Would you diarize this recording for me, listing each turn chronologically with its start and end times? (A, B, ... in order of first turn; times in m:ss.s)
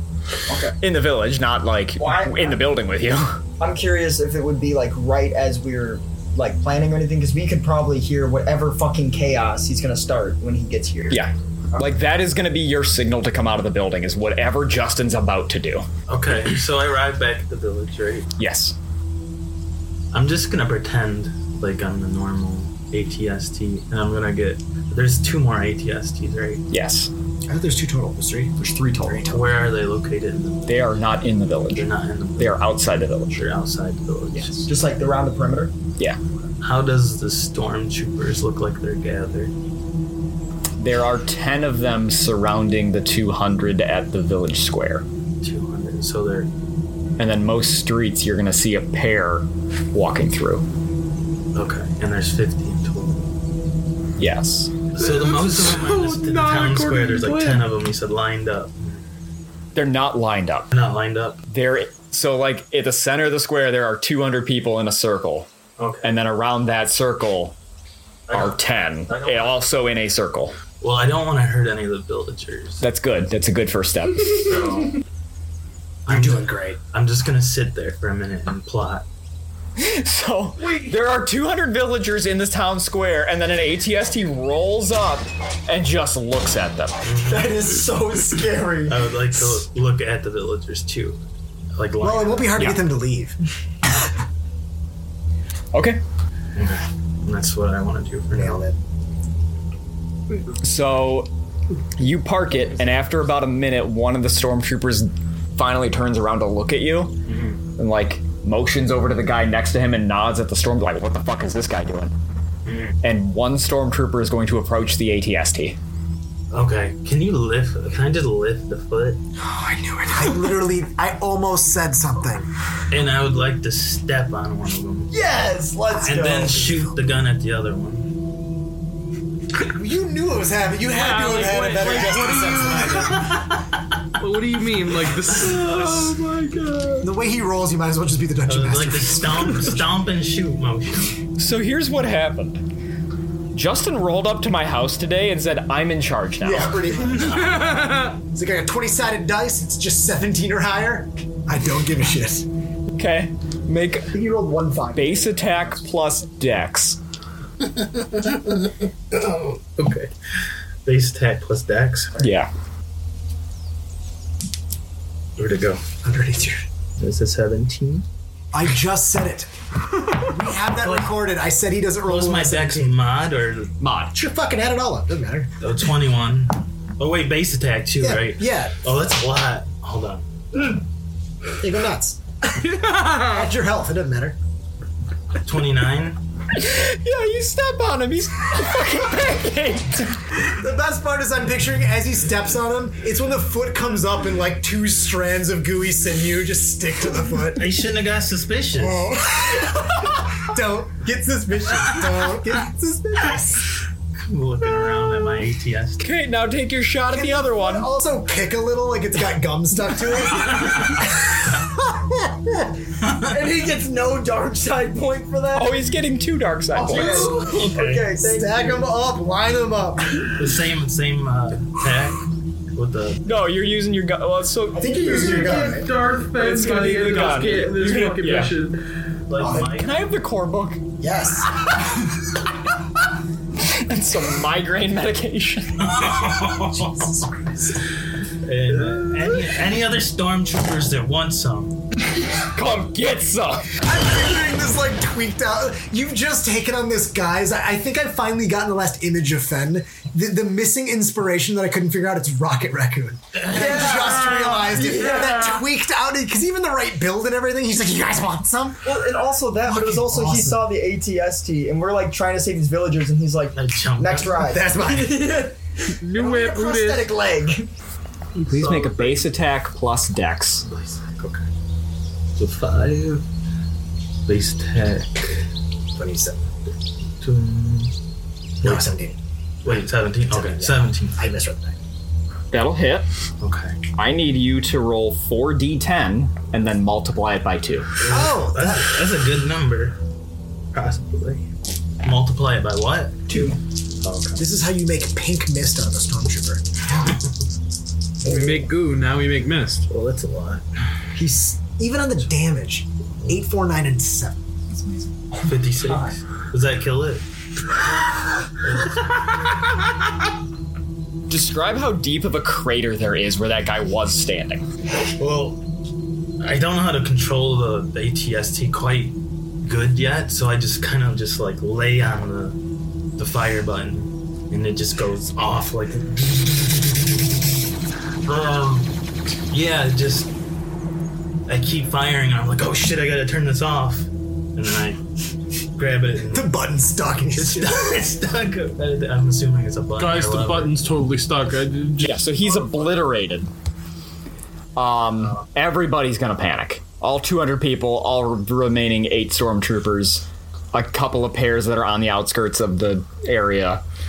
0:00.5-0:00.8 A
0:00.8-0:03.4 B
0:02.0-0:02.6 A
0:03.6-0:11.8 A
0:11.1-0:15.9 B
0:16.1-0:18.3 C
0:18.4-0:18.7 B
0:20.1-0:26.6 C
0:26.7-0:27.1 B
0:27.5-0:29.5 D
0:28.6-0:29.3 B
0:29.3-0:30.8 C
0:30.6-0:33.4 B
0:31.7-0:32.7 C
0:33.3-0:34.6 C
0:34.3-0:34.7 B
0:34.6-0:35.7 A
0:36.6-0:39.5 C
0:40.8-0:45.0 B
0:45.4-0:46.5 C
0:47.2-0:50.6 B
0:51.5-0:53.3 C
0:54.2-0:54.7 B
0:54.9-0:59.0 C
0:55.0-0:57.7 E
0:59.7-1:00.7 B
1:00.7-1:01.4 C
1:01.5-1:05.5 B
1:05.8-1:06.2 C
1:06.0-1:07.5 B
1:08.3-1:08.6 C
1:08.3-1:10.6 B
1:09.1-1:09.5 C
1:10.8-1:12.8 C
1:12.8-1:14.6 B
1:14.5-1:15.0 C
1:16.0-1:19.0 C
1:16.1-1:16.8 D
1:19.8-1:27.0 B
1:27.0-1:27.6 C
1:27.2-1:29.1 A
1:28.9-1:31.2 C
1:31.7-1:32.5 C
1:32.0-1:33.4 D
1:32.6-1:32.8 B
1:35.7-1:36.0 B
1:36.5-1:38.6 C
1:38.3-1:38.8 D
1:40.6-1:41.3 B
1:42.0-1:47.1 B
1:47.3-1:47.6 C
1:47.8-1:52.1 B
1:52.6-1:52.9 C
1:53.0-1:55.8 B
1:56.5-1:59.2 C
1:59.4-2:02.5 D
2:02.9-2:05.1 C
2:05.1-2:06.6 A
2:06.0-2:08.1 C
2:09.6-2:13.4 D
2:10.9-2:13.4 E
2:14.2-2:16.2 E
2:15.4-2:17.1 B
2:17.0-2:19.9 D
2:18.5-2:21.2 C
2:21.4-2:22.6 B
2:23.5-2:26.8 B
2:26.4-2:32.5 D
2:27.3-2:28.2 E
2:32.9-2:34.1 B
2:34.1-2:35.3 D
2:34.9-2:37.0 B
2:37.6-2:40.1 C
2:40.8-2:42.2 C
2:42.2-2:42.5 B
2:45.4-2:45.8 C
2:46.0-2:46.6 D
2:47.0-2:48.0 C
2:48.5-2:49.5 D
2:50.2-2:53.0 D
2:50.8-2:51.1 C
2:52.0-2:53.7 C
2:53.8-2:54.2 B
2:54.1-2:55.5 D
2:55.6-3:00.8 C
2:58.0-2:58.8 D
3:01.6-3:02.2 D
3:02.6-3:03.4 E
3:03.1-3:04.4 D
3:05.4-3:06.2 C
3:06.5-3:10.2 B
3:10.4-3:17.8 D
3:17.5-3:19.1 C
3:18.8-3:23.7 D
3:24.3-3:26.0 C
3:26.0-3:27.9 B
3:27.1-3:32.7 D
3:33.1-3:35.9 A
3:35.5-3:37.3 B
3:36.8-3:38.9 A
3:36.8-3:37.6 D
3:37.0-3:38.1 C
3:38.2-3:40.2 D
3:40.4-3:42.2 C
3:42.7-3:43.2 C
3:43.2-3:45.0 B
3:44.8-3:45.9 A
3:44.8-3:45.9 D
3:45.1-3:48.8 E
3:46.3-3:48.5 B
3:47.0-3:47.9 A
3:49.3-3:49.9 C
3:49.4-3:49.7 D
3:49.6-3:50.8 B
3:51.0-3:51.5 D
3:53.6-3:55.8 B
3:55.8-3:57.2 C
3:56.3-3:57.8 D
3:58.4-4:01.7 C
4:02.5-4:03.7 B
4:03.7-4:18.9 D
4:13.4-4:14.2 C
4:13.5-4:15.6 A
4:18.8-4:27.7 A
4:19.6-4:20.6 D
4:23.5-4:24.5 C
4:24.4-4:25.5 D
4:26.0-4:27.1 E
4:28.5-4:30.6 B
4:28.5-4:29.3 C
4:30.6-4:31.4 C
4:32.4-4:33.2 C
4:34.2-4:35.4 C
4:36.0-4:36.5 D
4:37.2-4:37.9 C
4:38.6-4:38.9 C
4:38.6-4:39.8 D
4:39.6-4:41.2 C
4:40.3-4:41.8 D
4:42.5-4:43.1 B
4:43.4-4:43.8 C
4:44.0-4:47.9 B
4:48.0-4:50.0 C
4:48.0-4:49.0 D
4:50.7-4:51.4 C
4:52.0-4:53.5 C
4:53.3-4:53.6 A
4:54.0-4:54.4 C
4:54.4-4:57.1 D
4:56.9-4:57.4 C
4:58.2-4:59.9 E
4:59.9-5:00.6 C
5:01.1-5:01.6 A
5:01.8-5:04.4 D
5:05.4-5:07.2 C
5:05.8-5:06.1 A
5:08.6-5:09.7 C
5:11.3-5:14.6 B
5:15.2-5:15.6 C
5:16.4-5:22.6 C
5:23.2-5:27.4 C
5:28.2-5:28.9 C
5:29.5-5:30.3 C
5:31.5-5:35.0 C
5:35.8-5:36.5 C
5:36.3-5:38.0 D
5:37.3-5:40.7 C
5:40.0-5:42.5 E
5:42.0-5:43.5 B
5:44.8-5:53.8 B